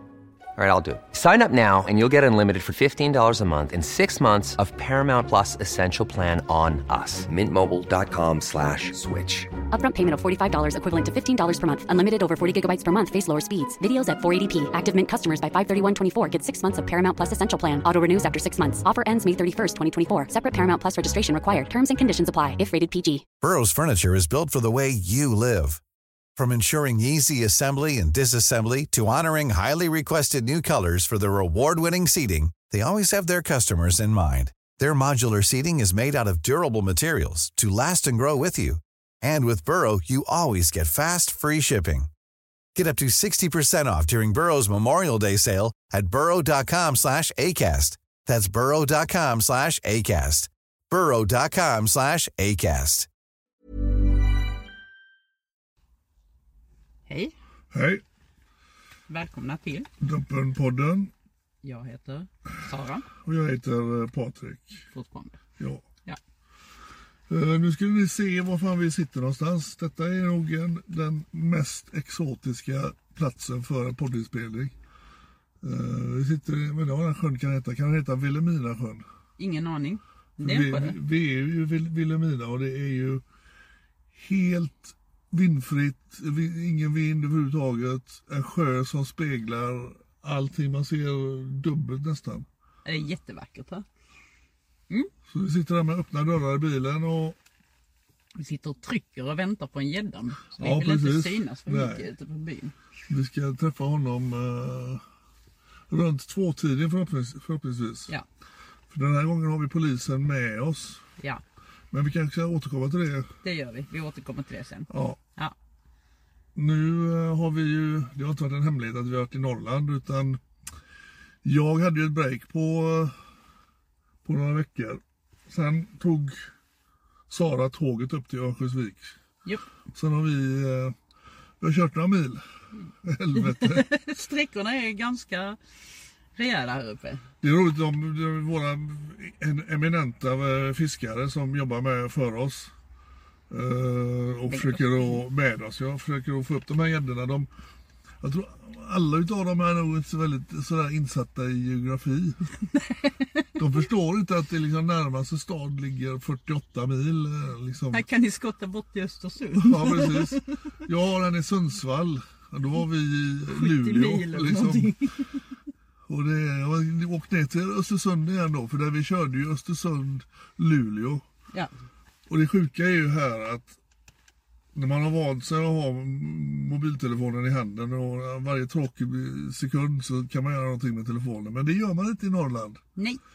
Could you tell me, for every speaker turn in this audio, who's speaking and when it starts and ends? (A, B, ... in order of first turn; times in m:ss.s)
0:00.6-0:09.5 A
0:09.7-0:23.2 B
0:23.4-0:25.8 C
0:26.4-0:42.1 C
0:42.8-0:53.1 C
0:57.1-0:57.3 D
0:57.7-0:58.0 E
0:59.1-0:59.9 D
1:00.0-1:01.1 E
1:01.6-1:03.1 D
1:03.2-1:04.9 E
1:04.9-1:05.4 D
1:05.6-1:05.8 E
1:07.3-1:14.8 E
1:15.6-1:19.0 E
1:19.4-1:21.0 D
1:20.4-1:23.2 E
1:24.2-1:32.5 E
1:32.8-1:33.8 D
1:35.3-1:37.4 E
1:38.4-1:42.7 D
1:40.6-1:42.0 E
1:43.1-1:45.0 E
1:45.9-1:48.1 E
1:48.9-1:51.0 E
1:51.9-1:53.3 E
1:53.4-1:55.6 D
1:54.9-1:55.2 E
1:56.6-2:00.4 E
2:01.4-2:03.2 E
2:04.2-2:06.5 E
2:07.3-2:09.2 E
2:09.9-2:11.0 E
2:11.6-2:12.4 E
2:13.0-2:13.9 E
2:13.4-2:15.6 D
2:16.4-2:17.2 D
2:17.4-2:22.7 E
2:23.5-2:27.5 E
2:24.5-2:25.2 D
2:28.2-2:32.5 E
2:32.7-2:33.6 D
2:33.6-2:38.1 E
2:37.9-2:40.5 D
2:39.5-2:45.0 E
2:43.5-2:45.4 D
2:46.1-2:51.2 E
2:52.3-2:53.8 E
2:54.8-3:02.8 E
3:03.0-3:03.2 D